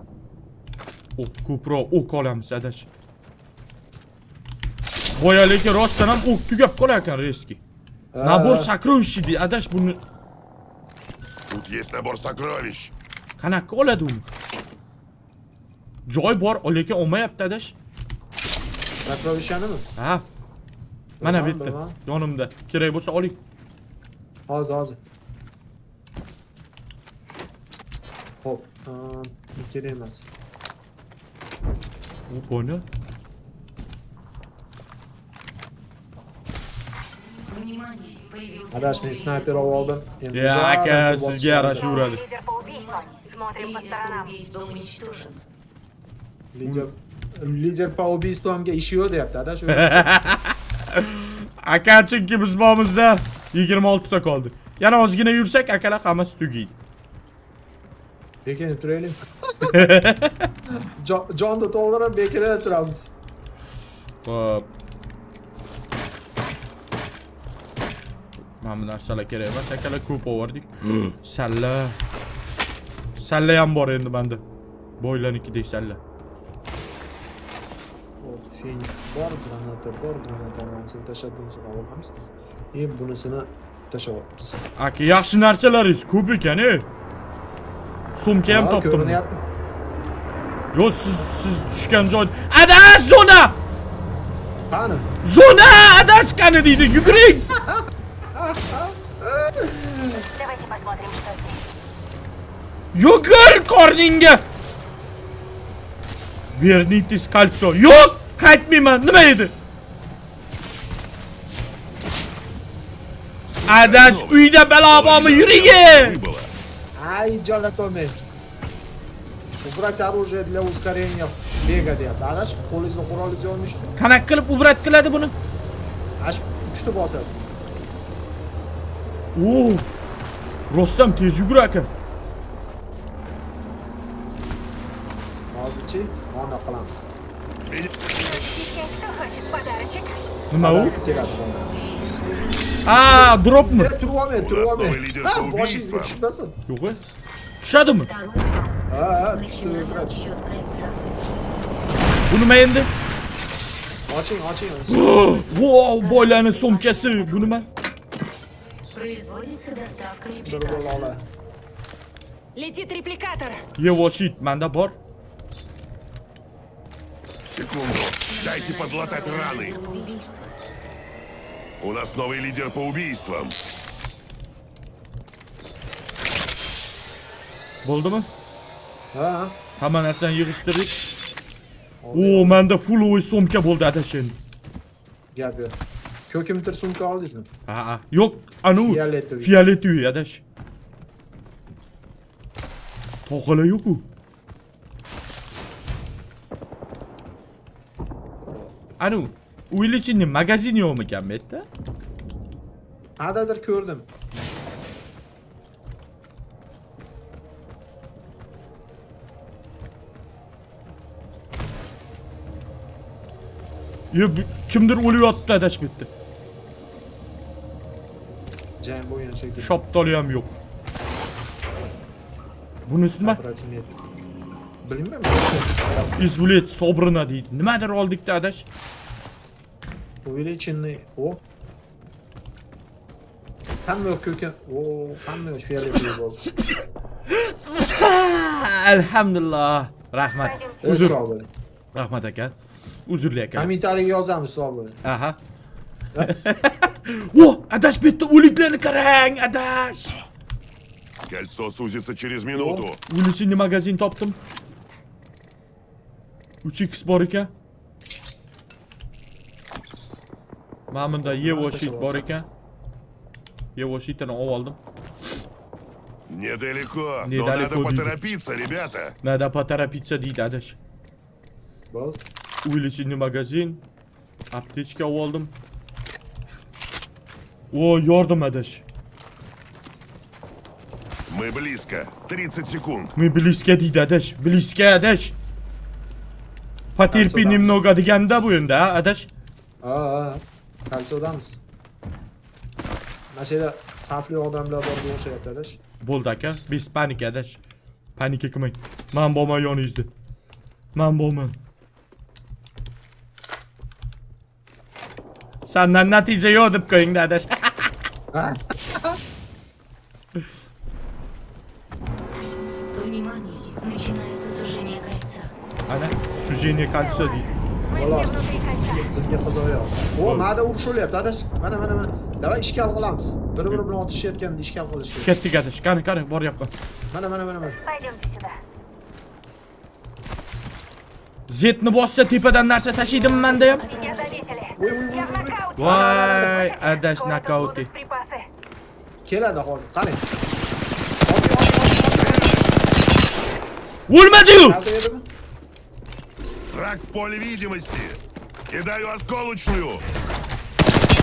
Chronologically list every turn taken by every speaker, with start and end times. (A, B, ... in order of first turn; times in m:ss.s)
0:01.2-0:02.9 A
0:05.2-0:07.6 A
0:08.1-0:08.7 B
0:08.2-0:10.0 A
0:11.5-0:12.9 C
0:13.4-0:14.2 A
0:16.1-0:17.8 A
0:19.1-0:19.9 B
0:20.0-0:20.2 A
0:21.2-0:22.0 B
0:21.2-0:23.4 A
0:24.5-0:25.0 B
0:28.4-0:30.3 B
0:32.3-0:32.9 A
0:37.2-0:40.0 D
0:38.7-0:42.0 B
0:40.3-0:42.2 A
0:41.8-0:44.4 E
0:41.9-0:45.4 D
0:46.5-0:50.1 B
0:49.7-0:56.8 A
0:58.4-0:59.8 B
0:59.7-1:00.5 A
1:01.0-1:03.1 B
1:04.2-1:04.7 A
1:08.6-1:12.0 A
1:13.2-1:14.4 A
1:15.0-1:16.0 A
1:18.2-1:22.1 B
1:22.7-1:24.6 B
1:24.8-1:26.9 A
1:28.2-1:29.2 A
1:28.5-1:29.4 B
1:30.7-1:33.6 A
1:34.7-1:35.1 B
1:35.2-1:37.5 A
1:37.5-1:37.8 B
1:38.4-1:40.2 B
1:40.3-1:41.6 E
1:42.9-1:44.4 A
1:46.5-1:49.5 A
1:53.5-1:56.5 C
1:53.7-1:56.2 A
1:57.0-1:58.2 B
1:59.6-2:04.0 B
2:04.0-2:05.3 A
2:06.2-2:07.5 B
2:09.4-2:09.9 A
2:10.7-2:11.9 A
2:15.5-2:17.1 B
2:17.7-2:18.0 C
2:18.1-2:20.2 E
2:20.5-2:21.0 A
2:20.6-2:21.6 B
2:20.6-2:23.1 D
2:22.9-2:23.9 A
2:23.1-2:26.6 B
2:24.4-2:26.2 C
2:26.7-2:27.0 A
2:27.6-2:28.1 A
2:27.9-2:31.0 D
2:28.9-2:30.2 B
2:32.3-2:32.9 A
2:34.1-2:35.3 B
2:34.9-2:37.7 A
2:35.8-2:37.7 D
2:38.9-2:41.2 D
2:40.4-2:41.2 B
2:42.6-2:43.7 E
2:43.8-2:45.0 A
2:47.5-2:49.8 C
2:48.2-2:50.5 D
2:51.8-2:53.6 C
2:57.8-2:58.3 A
2:59.1-2:59.6 B
2:59.8-3:01.0 A
3:02.0-3:02.6 B
3:02.1-3:04.4 A
3:05.3-3:05.8 B
3:06.3-3:07.5 B
3:07.7-3:10.4 A
3:08.8-3:09.6 B
3:13.3-3:14.1 A
3:18.5-3:18.7 B
3:19.0-3:21.7 A
3:23.2-3:24.1 B
3:34.1-3:36.1 A
3:38.8-3:39.8 B
3:39.6-3:40.5 A
3:42.9-3:43.4 A
3:43.2-3:44.0 B
3:44.8-3:46.1 B
3:46.2-3:48.7 A
3:50.2-3:51.4 B
3:53.9-3:56.5 B
3:57.3-4:01.2 A
4:00.4-4:01.1 E
4:00.8-4:01.5 B
4:01.9-4:02.5 A
4:03.1-4:03.7 A
4:03.6-4:05.0 B
4:05.0-4:05.4 A
4:06.1-4:06.4 B
4:06.2-4:10.2 A
4:11.3-4:13.0 C
4:12.5-4:12.8 B
4:13.1-4:14.4 A
4:16.6-4:17.5 A
4:20.9-4:22.5 A
4:21.2-4:22.4 B
4:23.8-4:24.8 A
4:26.3-4:29.2 C
4:27.2-4:28.1 A
4:29.2-4:30.8 A
4:31.9-4:32.2 B
4:32.6-4:33.8 A
4:34.5-4:35.5 A
4:37.7-4:38.8 A
4:41.3-4:43.1 C
4:43.2-4:45.4 A
4:47.0-4:49.3 A
4:47.1-4:47.8 B
4:49.8-4:51.6 B
4:53.3-4:55.8 B
4:56.0-4:57.6 A
4:58.2-5:00.1 A
5:01.0-5:01.6 A
5:05.7-5:07.9 A
5:08.3-5:09.2 B
5:12.9-5:15.5 D
5:15.9-5:17.5 A
5:17.0-5:19.1 E
5:17.9-5:25.3 B
5:25.2-5:26.7 A
5:27.1-5:27.8 B
5:27.8-5:28.6 E
5:31.5-5:33.8 A
5:33.1-5:33.6 B
5:33.2-5:34.6 D
5:33.8-5:38.5 E
5:34.8-5:36.6 B
5:35.8-5:37.9 A
5:39.2-5:40.3 B
5:41.2-5:42.6 B
5:44.1-5:44.8 A
5:44.6-5:45.3 B
5:46.7-5:50.0 C